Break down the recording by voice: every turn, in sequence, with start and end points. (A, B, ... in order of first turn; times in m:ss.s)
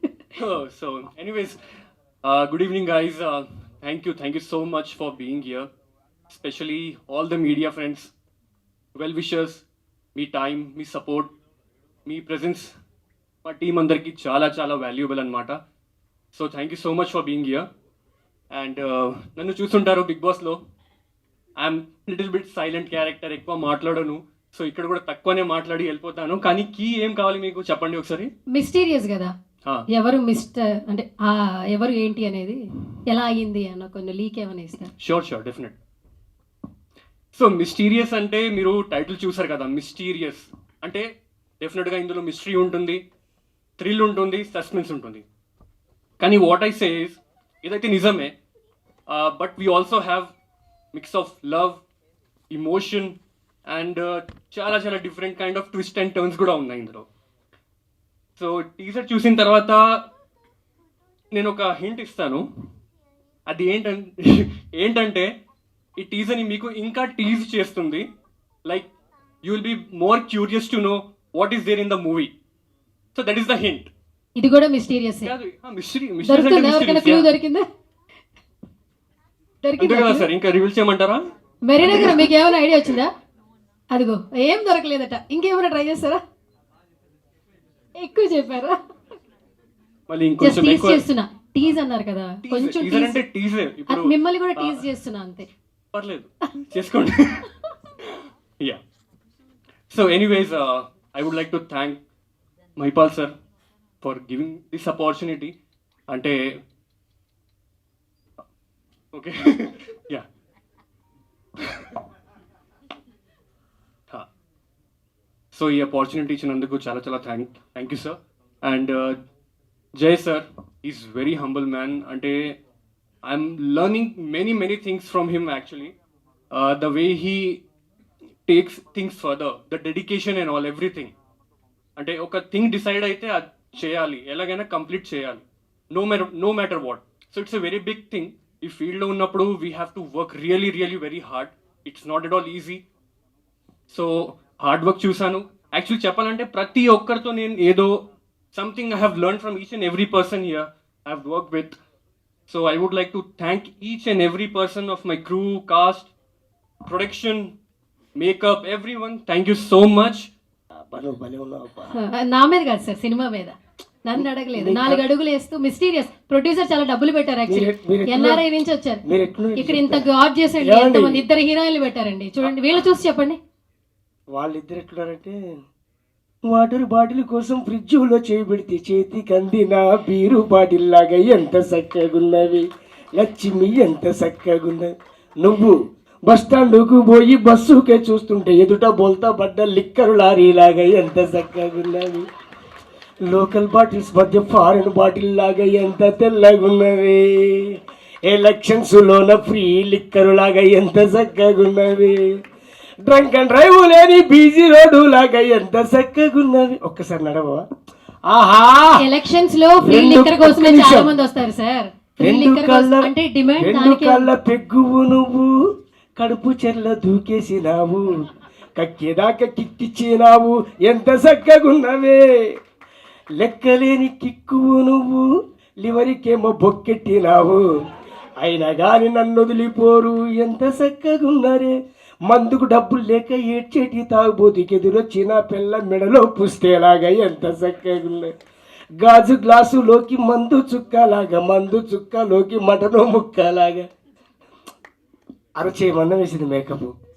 0:00.4-0:01.6 A
0:02.2-0:05.7 A
0:06.3-0:08.1 A
0:09.0-0:09.6 A
0:10.2-0:11.3 A
0:12.1-0:12.7 A
0:13.4-0:15.6 A
0:16.3-0:17.7 A
0:18.5-0:20.6 A
0:21.6-0:28.3 A
0:28.5-0:29.3 B
0:29.9-0:34.9 B
0:35.0-0:35.8 A
0:37.3-0:41.1 A
0:41.6-0:43.0 A
0:43.8-0:45.3 A
0:46.2-0:48.4 A
0:49.1-0:50.3 A
0:50.9-0:51.8 A
0:52.5-0:57.1 A
0:58.4-0:59.9 A
1:01.3-1:02.5 A
1:03.5-1:05.3 A
1:06.0-1:08.1 A
1:09.4-1:12.3 A
1:13.2-1:13.9 A
1:14.4-1:15.3 B
1:15.2-1:17.3 A
1:16.2-1:17.7 B
1:19.6-1:20.3 B
1:19.8-1:21.2 A
1:21.6-1:23.1 B
1:21.8-1:22.3 A
1:23.9-1:26.2 B
1:28.0-1:28.8 B
1:30.1-1:31.0 A
1:30.4-1:33.2 B
1:32.4-1:34.9 A
1:33.9-1:35.5 B
1:35.9-1:37.4 A
1:39.9-1:42.0 A
1:42.8-1:43.4 A
1:44.0-1:45.5 A
1:46.1-1:46.4 A
1:49.1-1:50.2 A
1:55.5-1:59.2 A
2:00.0-2:02.6 A
2:03.2-2:05.9 A
2:06.5-2:07.6 A
2:08.5-2:11.1 A
2:12.0-2:22.8 A
2:23.9-2:28.0 A
2:28.5-2:31.8 A
2:32.5-2:36.1 A
2:36.9-2:37.5 A
2:38.2-2:40.3 A
2:40.9-2:41.9 C
2:42.0-2:49.0 B
2:44.2-2:45.0 C
2:47.5-2:48.4 C
2:49.1-2:50.1 C
2:49.6-2:53.4 B
2:50.6-2:51.2 C
2:54.3-2:55.4 C
2:56.5-3:05.8 C
3:06.3-3:12.3 C
3:13.3-3:22.2 C
3:23.0-3:27.6 C
3:28.3-3:29.0 C
3:29.0-3:34.3 B
3:29.8-3:31.1 C
3:32.2-3:35.5 C
3:36.2-3:38.2 C
3:38.8-3:42.2 C
3:43.4-3:45.2 C
3:45.8-3:47.6 C
3:48.4-3:51.7 C
3:52.3-3:58.3 C
3:59.0-4:03.9 C
4:05.6-4:06.9 C